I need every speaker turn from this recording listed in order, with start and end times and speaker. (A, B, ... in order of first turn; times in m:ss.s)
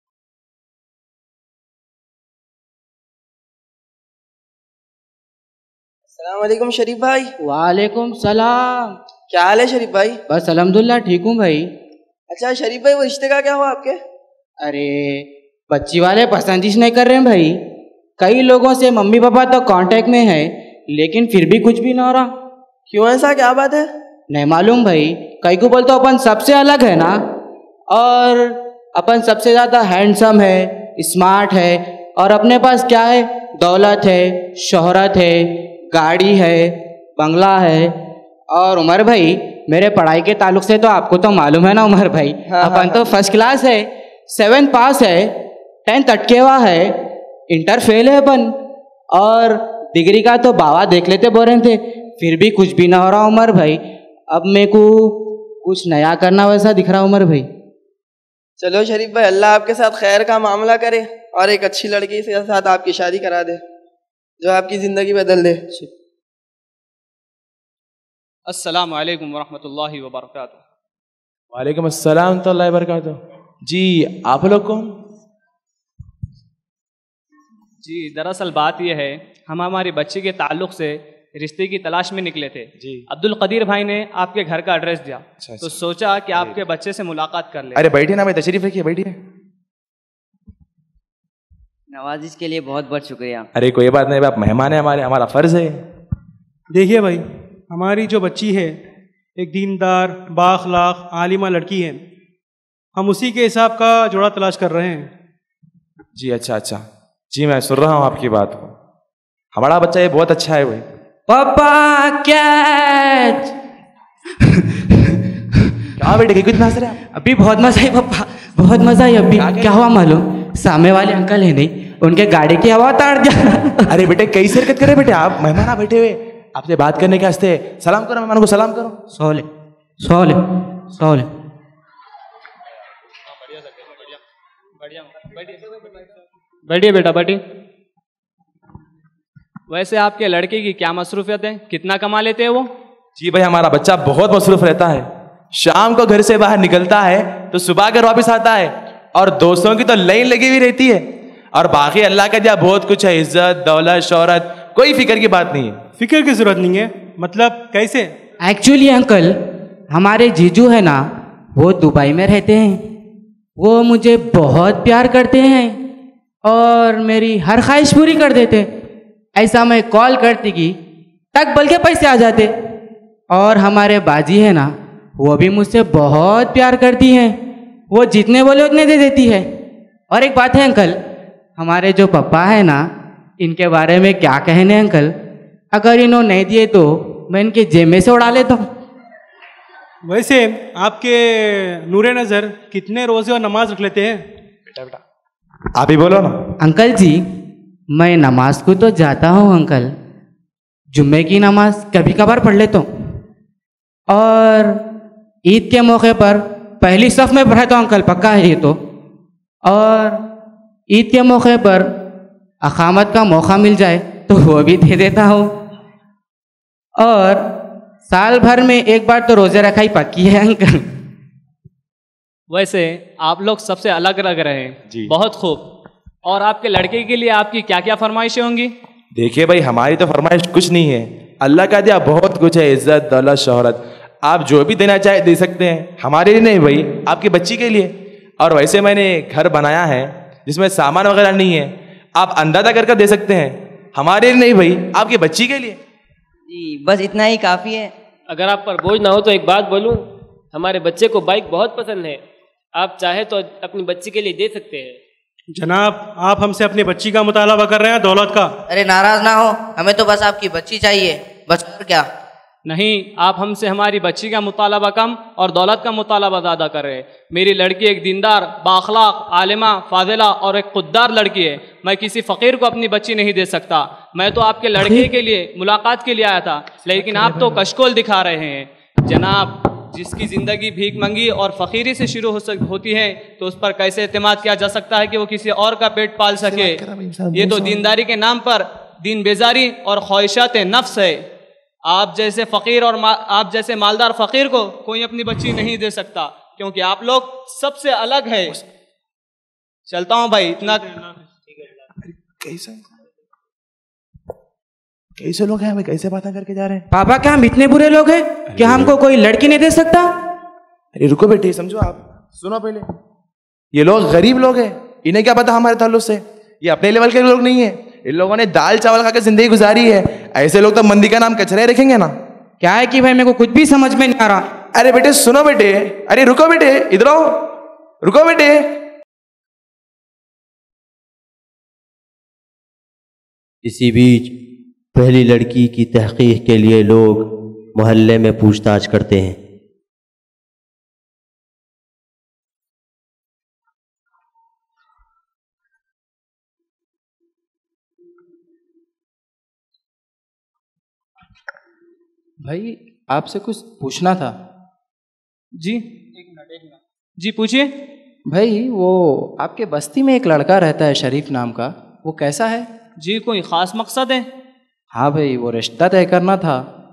0:06.1-0:07.3 A
0:07.4-0:09.0 B
0:09.3-0:10.2 A
0:10.3-0:11.7 B
0:12.3-0:14.0 A
0:14.6-0:17.6 B
0:18.2-0:22.3 B
0:22.9-0:23.9 A
0:24.3-0:27.2 B
0:27.9-0:38.0 B
0:38.5-0:47.0 B
0:42.5-0:43.0 A
0:47.5-0:48.6 B
0:49.1-0:57.5 B
0:58.6-1:03.6 A
1:04.4-1:05.9 A
1:08.5-1:10.6 C
1:11.5-1:14.9 D
1:17.8-1:27.9 C
1:27.8-1:29.2 D
1:31.9-1:33.5 E
1:33.6-1:35.8 D
1:36.7-1:38.7 F
1:39.4-1:42.0 F
1:43.0-1:45.1 F
1:46.2-1:46.8 D
1:47.3-1:48.7 D
1:49.5-1:50.8 D
1:51.3-1:53.5 B
1:54.4-1:55.2 B
1:56.0-1:57.0 D
1:57.1-2:03.9 B
1:59.4-1:59.8 D
2:03.9-2:09.0 D
2:09.1-2:09.5 B
2:10.0-2:11.3 B
2:13.4-2:14.2 C
2:14.8-2:15.9 C
2:16.7-2:17.4 C
2:19.7-2:22.7 C
2:23.2-2:35.8 D
2:36.0-2:38.1 F
2:38.4-2:39.4 B
2:39.9-2:41.0 B
2:41.6-2:42.8 B
2:43.6-2:45.8 B
2:46.4-2:48.7 B
2:49.4-2:50.8 B
2:51.3-2:52.5 B
2:53.3-2:57.4 B
2:57.9-2:59.5 B
3:00.1-3:01.0 B
3:01.6-3:02.9 B
3:03.4-3:05.1 B
3:05.7-3:08.7 B
3:10.1-3:14.2 F
3:14.7-3:15.0 D
3:15.8-3:16.4 D
3:16.6-3:17.2 B
3:18.0-3:19.9 B
3:20.9-3:22.9 B
3:24.1-3:24.8 B
3:25.5-3:28.8 B
3:29.7-3:30.2 B
3:30.9-3:32.0 B
3:32.6-3:35.5 B
3:37.0-3:37.5 B
3:38.1-3:40.9 B
3:42.5-3:45.7 C
3:46.3-3:48.7 C
3:49.2-4:05.8 D
4:06.5-4:07.9 E
4:08.3-4:12.2 G
4:12.8-4:15.0 G
4:15.6-4:18.5 F
4:18.7-4:22.1 H
4:22.7-4:46.8 C
4:46.4-4:47.8 D
4:47.3-4:51.2 C
4:51.9-4:58.6 C
4:59.9-5:00.9 C
5:02.1-5:02.9 D
5:05.2-5:06.8 D
5:06.9-5:10.1 B
5:11.0-5:12.9 D
5:13.7-5:22.1 D
5:22.6-5:24.4 B
5:24.8-5:28.8 D
5:33.6-5:34.3 I
5:35.0-5:39.4 I
5:52.4-5:54.3 J
5:55.6-5:57.7 C
5:58.3-6:02.7 J
6:03.0-6:04.3 C
6:04.9-6:06.6 J